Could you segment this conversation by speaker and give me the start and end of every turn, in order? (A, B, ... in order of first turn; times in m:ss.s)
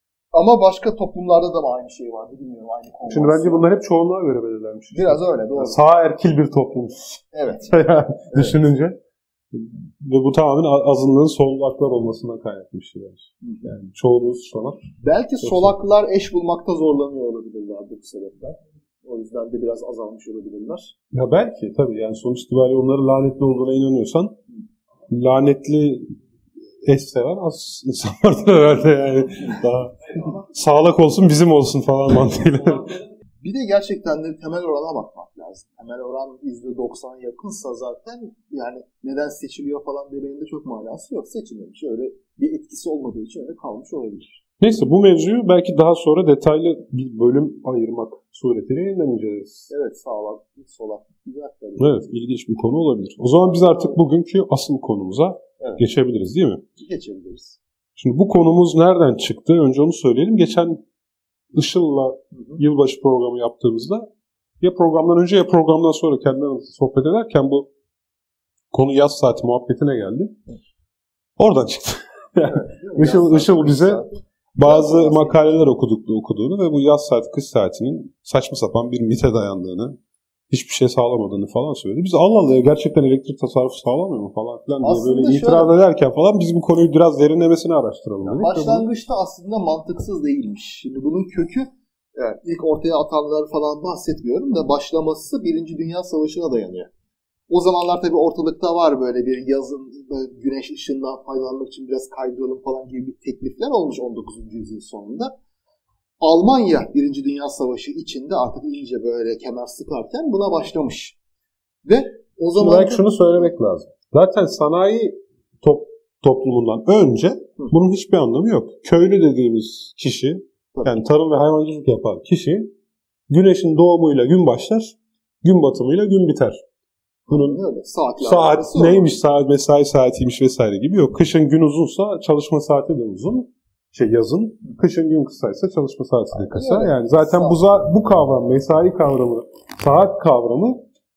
0:00.3-0:03.7 A
0:03.1-0:09.0 B
0:04.9-0:05.8 A
0:07.3-0:07.7 A
0:08.3-0:08.6 A
0:09.5-0:14.9 B
0:13.4-0:13.7 A
0:15.0-0:20.9 A
0:15.4-0:15.8 B
0:21.1-0:24.4 B
0:25.1-0:26.1 B
0:26.8-0:33.0 B
0:33.4-0:44.4 A
0:44.6-0:49.7 B
0:49.7-0:52.0 A
0:51.8-0:56.6 B
0:53.6-0:54.0 A
0:56.8-0:57.6 A
0:58.0-1:00.8 B
1:01.5-1:04.1 B
1:02.3-1:02.6 A
1:04.6-1:07.7 B
1:08.7-1:10.4 B
1:11.4-1:14.0 B
1:12.5-1:15.6 A
1:14.6-1:20.0 B
1:20.5-1:28.8 B
1:24.8-1:25.7 A
1:28.2-1:36.9 A
1:37.5-1:45.3 A
1:46.2-1:51.2 A
1:51.8-1:53.1 A
1:52.5-2:02.7 B
2:03.3-2:06.6 B
2:07.3-2:09.1 A
2:07.3-2:07.6 B
2:08.2-2:20.8 B
2:16.3-2:17.6 A